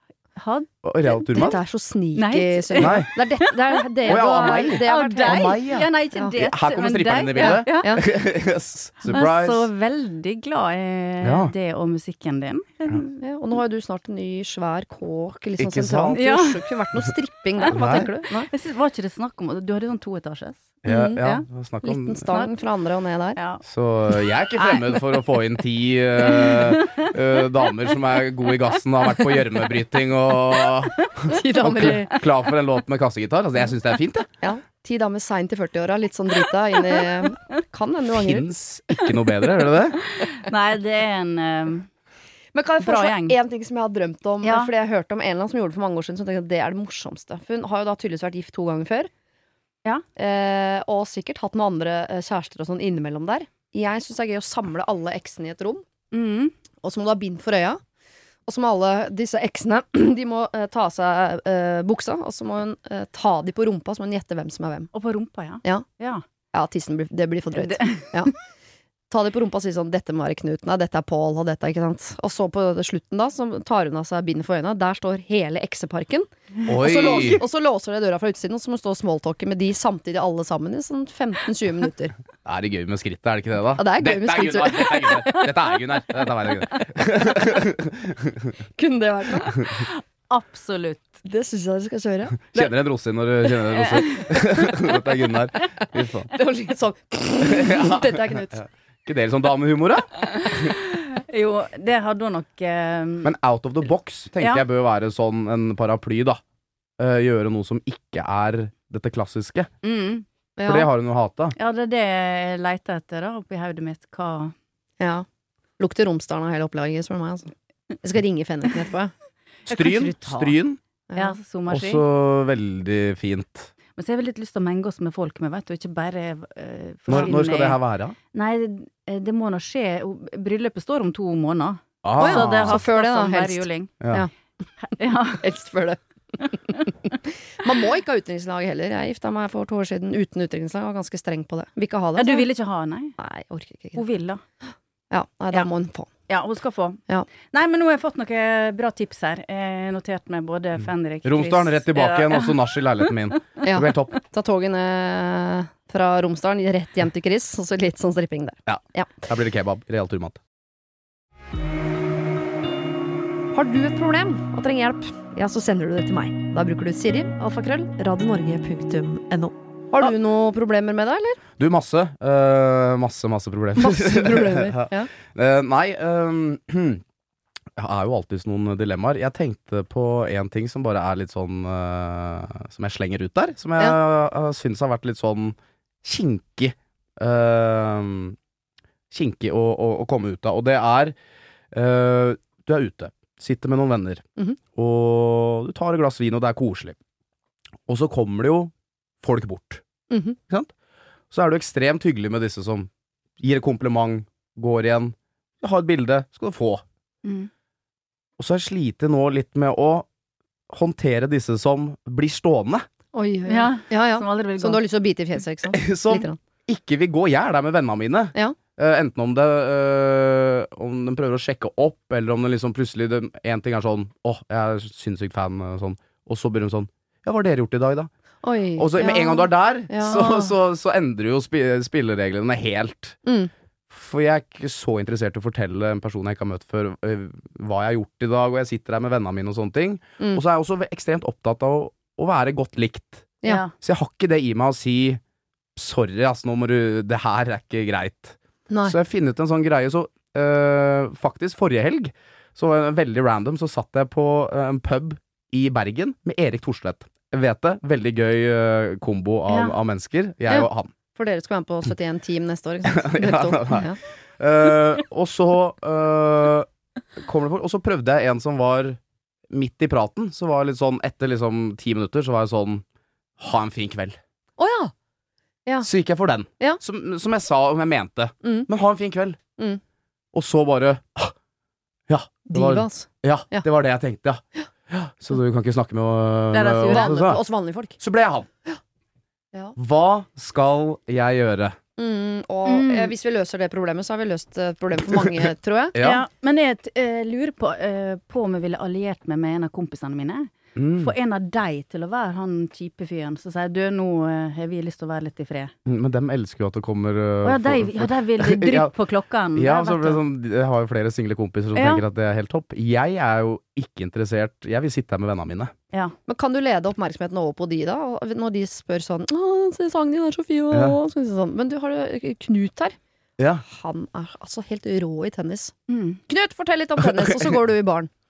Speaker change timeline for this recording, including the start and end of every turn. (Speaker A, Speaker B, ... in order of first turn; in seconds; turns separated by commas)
Speaker A: 0.3-1.2, Speaker B: 0.8-1.6, Speaker C: 1.3-5.6, Speaker A: 2.1-8.0, Speaker B: 2.8-3.1, Speaker B: 4.0-9.7, Speaker C: 7.4-8.0, Speaker A: 9.0-13.0, Speaker B: 11.2-11.5, Speaker C: 13.0-18.5, Speaker B: 15.6-16.2, Speaker A: 16.1-16.7, Speaker B: 17.6-18.1, Speaker A: 18.3-21.5, Speaker C: 20.8-21.2, Speaker B: 20.8-22.3, Speaker C: 21.8-23.4, Speaker A: 22.3-22.6, Speaker A: 23.3-25.2, Speaker B: 23.6-34.3, Speaker A: 26.2-27.1, Speaker A: 30.6-32.2, Speaker C: 31.2-32.1, Speaker C: 34.4-38.5, Speaker A: 36.4-37.0, Speaker B: 38.1-40.0, Speaker A: 38.9-41.9, Speaker C: 42.5-49.1, Speaker A: 42.8-43.4, Speaker A: 44.4-44.7, Speaker C: 50.2-55.8, Speaker A: 56.1-56.5, Speaker C: 56.8-57.8, Speaker C: 58.5-64.9, Speaker A: 64.9-66.2, Speaker C: 66.5-68.3, Speaker A: 67.7-68.3, Speaker C: 69.1-82.2, Speaker B: 76.6-77.4, Speaker B: 82.4-88.5, Speaker C: 83.8-85.6, Speaker C: 88.8-89.5, Speaker A: 89.7-91.1, Speaker C: 91.2-92.7, Speaker B: 92.4-96.3, Speaker A: 93.8-94.3, Speaker C: 96.3-98.7, Speaker B: 97.4-100.7, Speaker A: 100.1-103.3, Speaker B: 103.2-106.4, Speaker A: 104.4-104.6, Speaker B: 107.0-109.7, Speaker A: 109.8-110.2, Speaker C: 110.6-110.9, Speaker B: 110.6-111.5, Speaker A: 111.5-114.5, Speaker C: 115.0-115.2, Speaker C: 115.8-117.5, Speaker C: 118.0-119.1, Speaker A: 119.7-120.6, Speaker B: 119.7-120.8, Speaker A: 121.2-122.0, Speaker B: 121.7-123.7, Speaker A: 123.9-127.8, Speaker B: 127.1-128.2, Speaker A: 128.3-133.9, Speaker B: 132.0-132.8, Speaker C: 132.2-134.3, Speaker B: 134.0-134.2, Speaker A: 134.8-135.5, Speaker C: 135.4-142.5, Speaker A: 142.2-143.1, Speaker C: 143.2-144.0, Speaker A: 143.9-144.4, Speaker C: 145.1-146.1, Speaker A: 146.3-153.6, Speaker B: 151.2-154.2, Speaker C: 153.6-159.2, Speaker B: 158.7-160.4, Speaker C: 163.5-171.4, Speaker B: 171.6-177.0, Speaker C: 173.8-175.1, Speaker B: 177.8-188.3, Speaker B: 189.1-191.1, Speaker B: 191.7-194.2, Speaker B: 194.7-197.0, Speaker B: 197.9-198.7, Speaker B: 199.2-199.8, Speaker C: 200.1-200.4, Speaker B: 201.3-202.9, Speaker B: 203.4-206.8, Speaker A: 207.2-207.5, Speaker B: 208.4-210.1, Speaker B: 210.7-212.8, Speaker C: 213.1-216.4, Speaker A: 213.5-214.8, Speaker B: 215.7-228.1, Speaker C: 228.4-230.5, Speaker B: 228.8-233.2, Speaker C: 233.2-233.5, Speaker B: 233.9-243.3, Speaker A: 243.5-243.7, Speaker B: 243.8-245.2, Speaker B: 245.8-260.9, Speaker C: 248.7-248.9, Speaker A: 259.5-259.8, Speaker C: 260.5-264.0, Speaker B: 262.8-269.0, Speaker B: 269.5-272.8, Speaker B: 273.4-274.2, Speaker C: 274.6-274.9, Speaker B: 275.8-279.4, Speaker C: 278.4-278.7, Speaker B: 280.3-281.3, Speaker B: 282.1-287.4, Speaker C: 282.5-283.6, Speaker A: 286.5-287.1, Speaker C: 286.9-287.9, Speaker B: 288.0-288.5, Speaker B: 289.8-291.8, Speaker C: 292.0-295.9, Speaker A: 292.6-293.1, Speaker B: 295.9-296.2, Speaker A: 296.0-305.7, Speaker B: 300.7-301.1, Speaker B: 305.9-308.9, Speaker A: 307.4-310.2, Speaker B: 309.5-315.7, Speaker A: 311.7-312.0, Speaker A: 315.9-316.1, Speaker C: 316.3-322.9, Speaker B: 320.7-321.0, Speaker C: 323.6-325.7, Speaker A: 325.9-326.2, Speaker C: 326.3-328.1